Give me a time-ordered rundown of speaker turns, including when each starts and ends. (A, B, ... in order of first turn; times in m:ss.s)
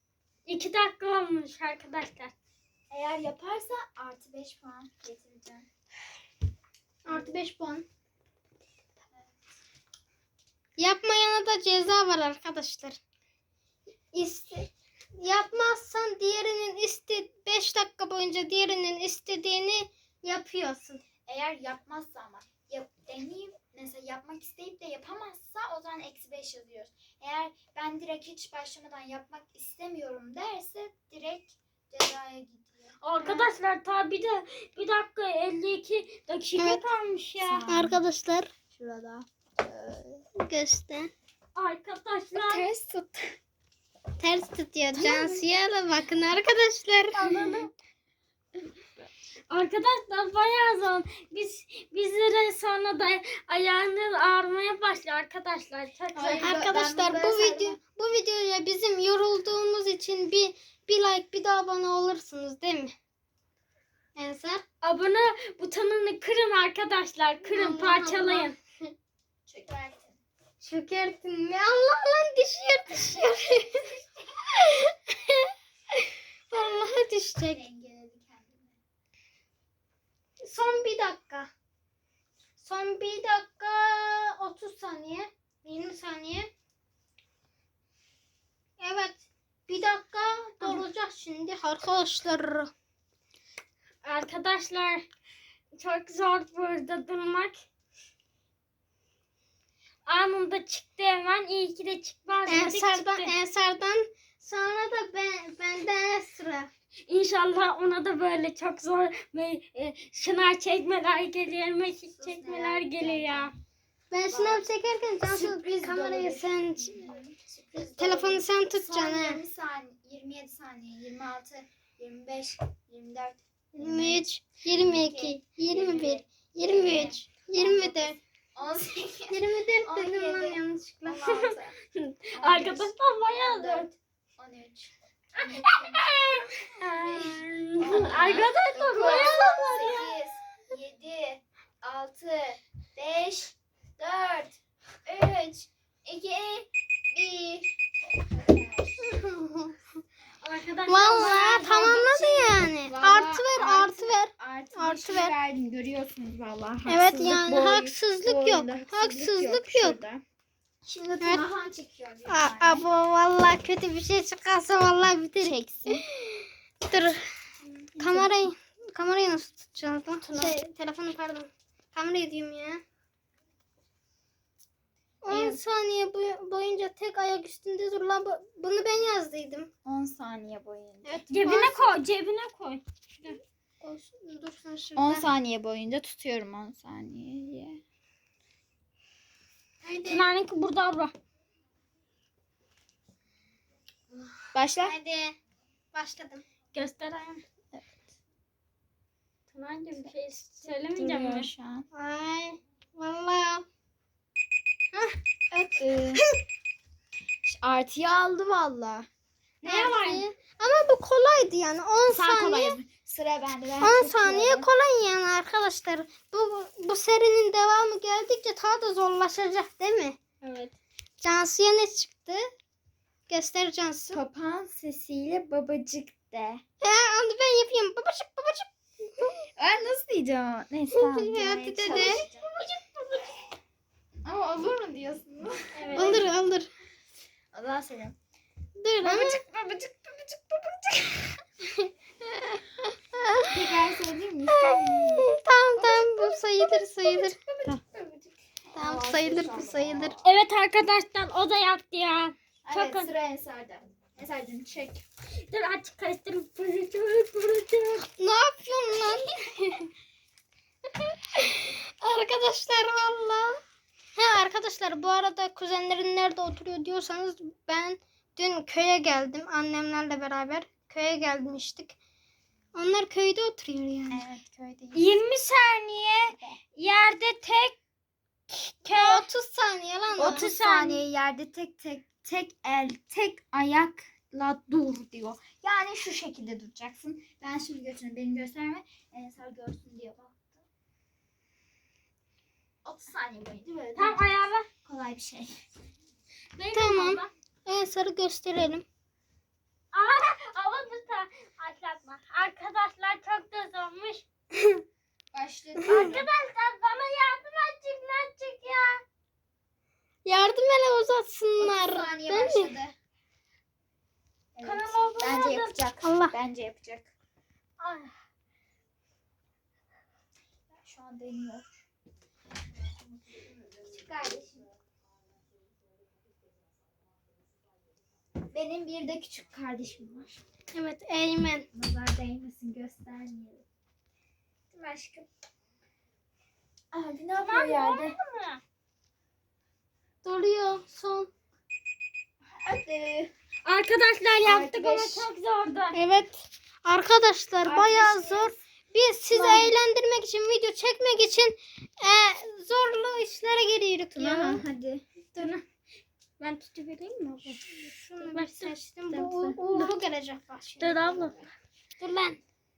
0:00.5-0:02.3 A
0:02.9-0:05.7 B
0:07.1-0:07.9 C
0:07.1-0:07.4 B
0:10.8-0:13.0 C
0:14.1-0:21.0 C
0:21.2-0:33.0 B
0:33.0-0:37.7 A
0:33.2-0:33.5 C
0:36.6-0:36.8 C
0:37.4-0:38.0 B
0:37.7-0:38.5 C
0:38.7-0:40.2 B
0:40.4-0:41.1 C
0:41.6-0:42.7 A
0:42.4-0:43.4 B
0:44.2-0:47.4 C
0:44.9-0:45.4 B
0:47.2-0:47.7 A
0:47.2-0:47.7 B
0:49.5-0:56.5 A
0:56.2-0:57.8 B
0:56.4-1:02.9 C
1:04.2-1:04.6 C
1:04.8-1:08.6 A
1:07.5-1:08.9 C
1:09.5-1:10.2 B
1:10.6-1:13.9 C
1:13.7-1:14.3 B
1:14.6-1:17.6 C
1:17.5-1:18.8 B
1:20.4-1:21.5 C
1:22.6-1:26.5 C
1:28.8-1:32.7 C
1:34.0-1:35.0 A
1:35.8-1:37.6 A
1:40.1-1:43.3 A
1:42.5-1:46.7 C
1:47.1-1:53.5 A
1:52.1-1:53.5 B
1:54.1-1:57.1 C
1:54.3-1:54.7 B
1:55.2-2:11.8 B
1:57.8-1:59.4 C
2:03.8-2:08.2 C
2:09.3-2:11.4 C
2:11.2-2:13.9 A
2:12.3-2:16.0 B
2:15.4-2:20.2 A
2:17.0-2:29.0 B
2:29.0-2:29.8 C
2:30.4-2:32.0 A
2:30.9-2:35.3 C
2:31.1-2:40.2 B
2:36.9-2:40.0 C
2:40.8-2:42.9 B
2:42.3-2:47.3 C
2:45.4-2:46.0 B
2:48.0-2:48.4 B
2:48.0-2:52.8 C
2:50.2-2:50.6 A
2:55.2-2:59.7 C
2:55.3-2:55.6 B
2:59.8-3:01.0 B
3:01.0-3:02.0 C
3:01.3-3:03.4 A
3:03.8-3:05.3 C
3:05.0-3:07.8 B
3:09.8-3:10.2 C
3:10.1-3:11.1 A
3:14.5-3:14.9 B
3:14.8-3:15.4 C
3:15.9-3:16.4 C
3:16.7-3:17.4 A
3:19.5-3:21.5 A
3:20.9-3:21.9 B
3:21.9-3:23.6 C
3:24.9-3:26.3 C
3:25.7-3:26.2 B
3:27.4-3:29.1 B
3:29.6-3:30.2 A
3:29.7-3:32.8 C
3:32.1-3:34.7 B
3:33.8-3:40.2 C
3:40.4-3:40.7 A
3:41.2-3:42.5 C
3:43.3-3:44.2 C
3:44.1-3:46.6 B
3:46.8-3:48.7 C
3:49.6-3:52.5 B
3:50.9-3:52.2 C
3:51.8-3:53.4 A
3:54.2-3:56.3 B
3:55.7-3:56.3 A
3:55.9-3:56.7 C
3:57.5-3:58.2 B
3:58.8-3:59.4 C
3:59.0-4:01.4 B
4:03.1-4:03.5 C
4:03.5-4:05.3 B
4:04.5-4:07.4 C
4:05.8-4:10.3 B
4:08.8-4:10.2 C
4:10.2-4:13.1 A
4:12.6-4:15.0 B
4:15.5-4:18.1 A
4:18.2-4:19.9 C
4:21.0-4:23.6 C
4:24.2-4:32.0 C
4:32.8-4:34.3 C
4:34.1-4:35.1 B
4:34.9-4:37.8 A
4:38.5-4:39.2 A
4:38.9-4:40.5 C
4:40.2-4:50.6 B
4:40.2-4:41.0 A
4:52.8-4:54.2 B
4:53.9-4:54.7 A
4:54.8-4:55.6 B
4:56.6-4:57.3 A
4:56.7-4:58.8 C
4:59.9-5:04.2 A
5:05.3-5:06.3 B
5:05.9-5:09.0 A
5:10.2-5:12.8 C
5:11.6-5:12.9 B
5:14.6-5:17.1 B
5:14.6-5:15.8 A
5:16.0-5:16.3 C
5:17.8-5:18.1 C
5:20.7-5:21.8 B
5:23.0-5:24.7 B
5:28.5-5:30.4 B
5:30.7-5:31.7 C
5:31.7-5:33.6 B
5:34.7-5:35.3 B
5:36.9-5:38.2 B
5:37.4-5:38.6 A
5:40.2-5:41.3 C
5:42.6-5:43.3 B
5:43.6-5:46.0 A
5:44.4-5:45.3 B
5:45.9-5:54.6 C
5:47.6-5:48.6 B
5:49.4-5:49.6 A
5:54.1-5:55.0 B
5:55.4-5:55.6 A
5:56.4-5:57.6 A
5:57.6-6:01.2 C
5:58.2-5:58.7 A
5:59.1-5:59.6 B
6:00.8-6:01.4 A
6:02.0-6:02.4 C